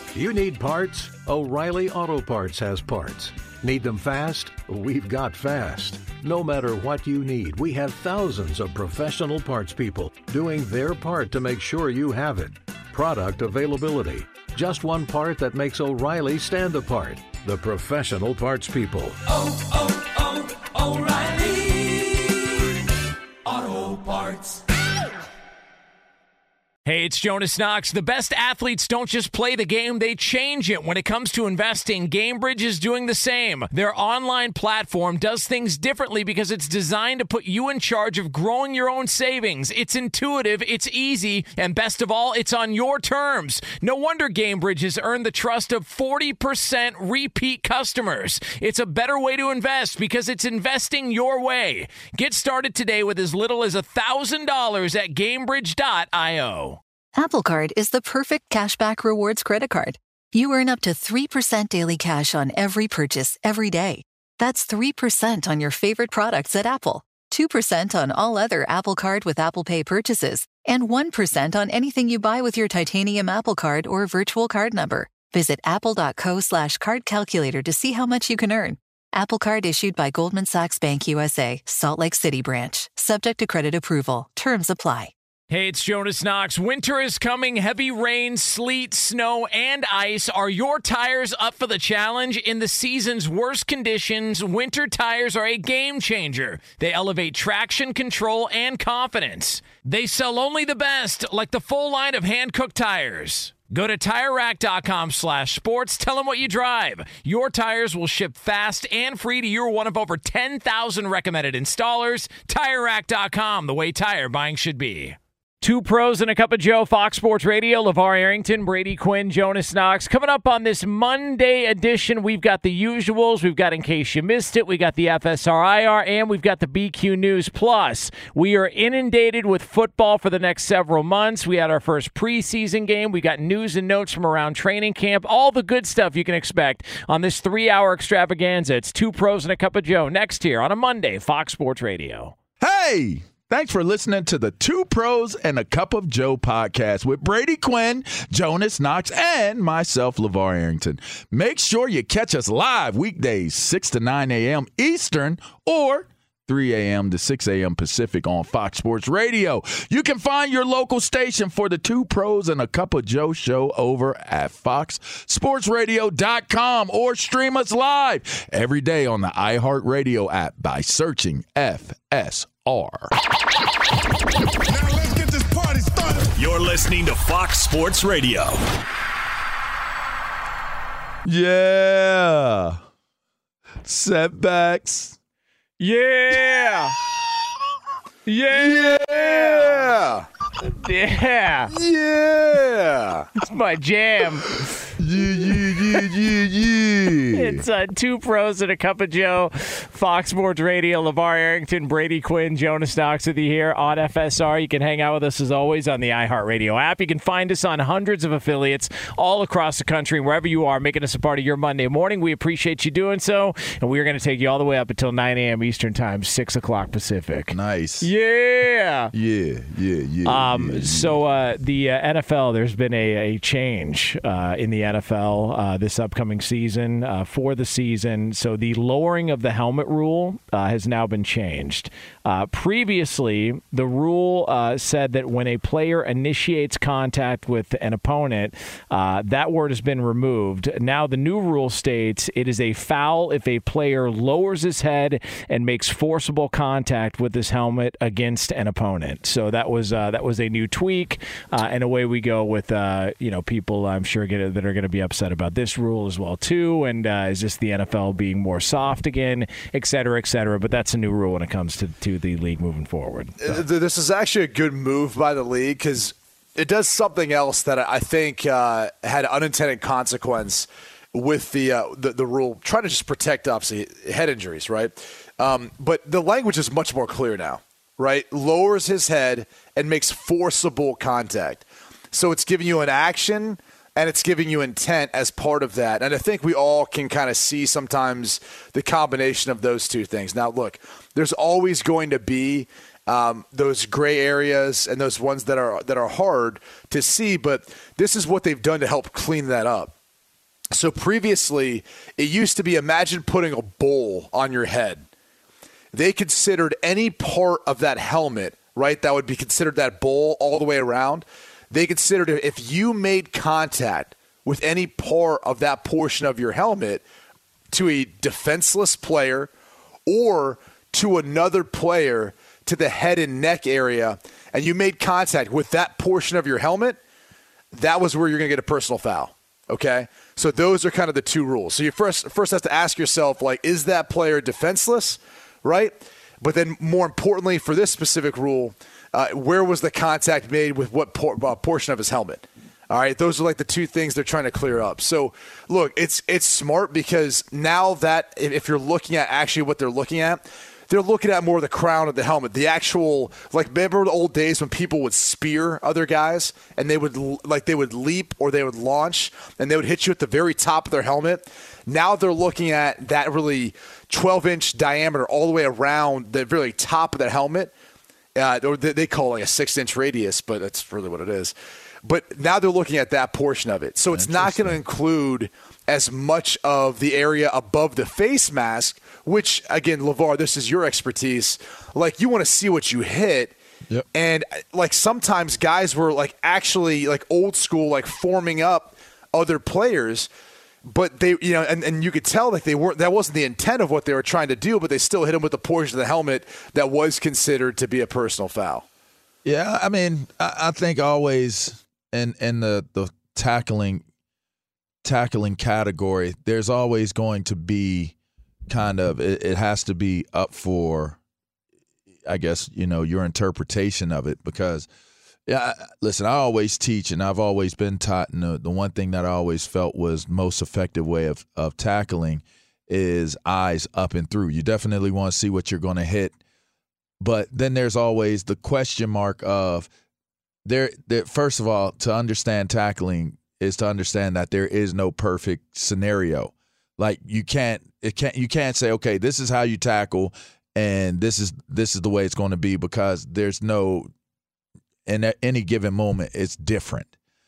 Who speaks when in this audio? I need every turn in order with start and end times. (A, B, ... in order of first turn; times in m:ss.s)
0:00.1-0:19.2 A
0:26.8-0:56.8 B
0:57.2-1:25.1 C
1:25.5-2:22.4 B
2:22.6-2:53.1 D
2:54.7-2:58.6 E
3:01.2-3:02.8 D
3:03.8-3:05.2 D
3:05.8-3:07.0 B
3:08.3-3:09.9 B
3:08.5-3:10.3 F
3:10.6-3:11.7 B
3:11.7-3:13.3 F
3:13.4-3:14.6 B
3:15.0-3:17.6 D
3:17.3-3:39.1 B
3:37.5-3:38.1 D
3:39.1-3:41.2 D
3:40.3-4:23.6 B
4:23.4-4:59.9 F
5:00.7-5:05.1 F
5:05.9-5:17.0 F
5:17.7-5:19.5 F
5:20.1-5:27.0 F
5:27.7-6:07.7 F
6:08.4-6:23.6 F
6:14.1-6:14.8 D
6:24.1-6:30.3 F
6:30.8-6:38.8 F
6:39.4-6:44.0 D
6:45.0-6:48.2 D
6:48.7-6:51.2 D
6:52.2-6:54.9 D
6:55.5-7:06.4 D
7:07.2-7:09.9 D
7:10.6-7:24.1 D
7:25.1-7:27.1 D